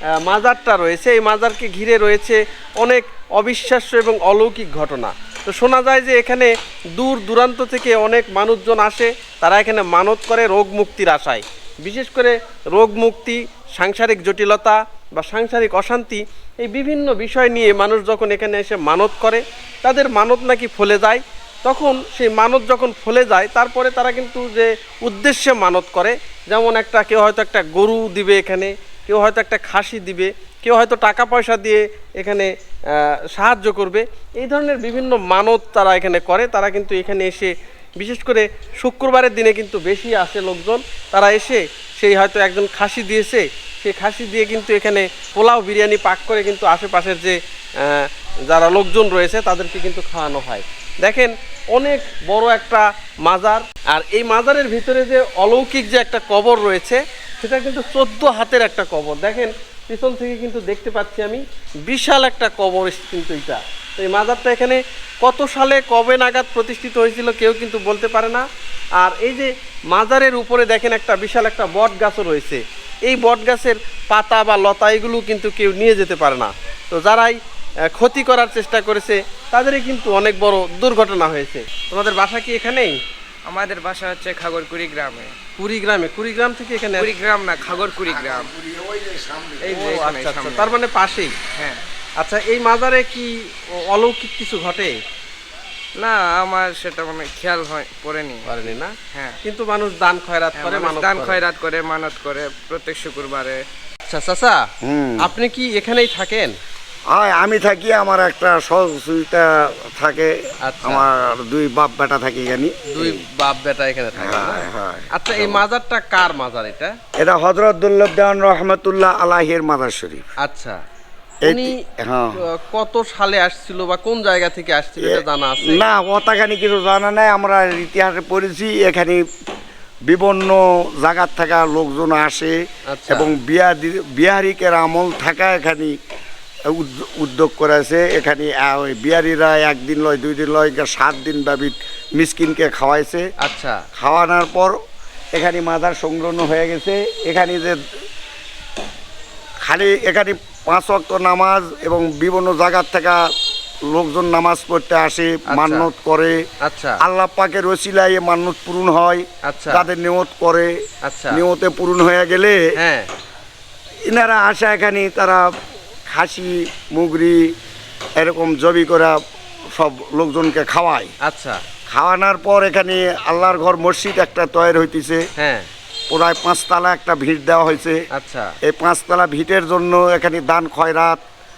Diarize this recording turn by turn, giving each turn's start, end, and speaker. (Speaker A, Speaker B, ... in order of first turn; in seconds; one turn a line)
Speaker A: 0.2-68.4
Speaker A: 69.0-77.4
Speaker A: 77.9-83.0
Speaker B: 83.5-85.4
Speaker A: 85.6-87.1
Speaker B: 87.0-88.5
Speaker C: 87.7-89.8
Speaker B: 89.6-90.7
Speaker A: 89.7-91.4
Speaker B: 91.5-91.8
Speaker A: 92.2-95.0
Speaker B: 96.0-99.4
Speaker A: 98.4-101.4
Speaker B: 100.5-103.6
Speaker A: 104.0-104.7
Speaker C: 104.8-105.3
Speaker A: 105.2-106.5
Speaker C: 107.1-113.2
Speaker A: 110.6-111.1
Speaker A: 112.9-116.9
Speaker C: 114.2-115.6
Speaker C: 117.2-120.2
Speaker A: 120.4-120.8
Speaker A: 121.4-121.8
Speaker C: 121.4-122.4
Speaker A: 122.5-125.8
Speaker C: 125.0-129.2
Speaker C: 130.1-132.6
Speaker A: 132.9-133.3
Speaker C: 133.1-136.0
Speaker C: 136.7-143.3
Speaker A: 143.4-143.8
Speaker C: 144.0-144.7
Speaker C: 145.3-147.8
Speaker C: 149.7-153.2
Speaker C: 153.9-156.4
Speaker A: 155.5-155.9
Speaker A: 156.6-157.0
Speaker C: 157.0-160.7
Speaker A: 159.4-159.9
Speaker A: 161.0-161.4
Speaker C: 161.3-162.6
Speaker A: 162.8-163.1
Speaker C: 164.1-165.5
Speaker C: 166.1-167.5
Speaker C: 168.2-169.2
Speaker C: 169.7-171.1
Speaker A: 171.2-171.6
Speaker C: 171.9-175.2
Speaker A: 175.4-175.7
Speaker C: 176.1-178.0
Speaker A: 178.1-178.6
Speaker C: 178.6-181.2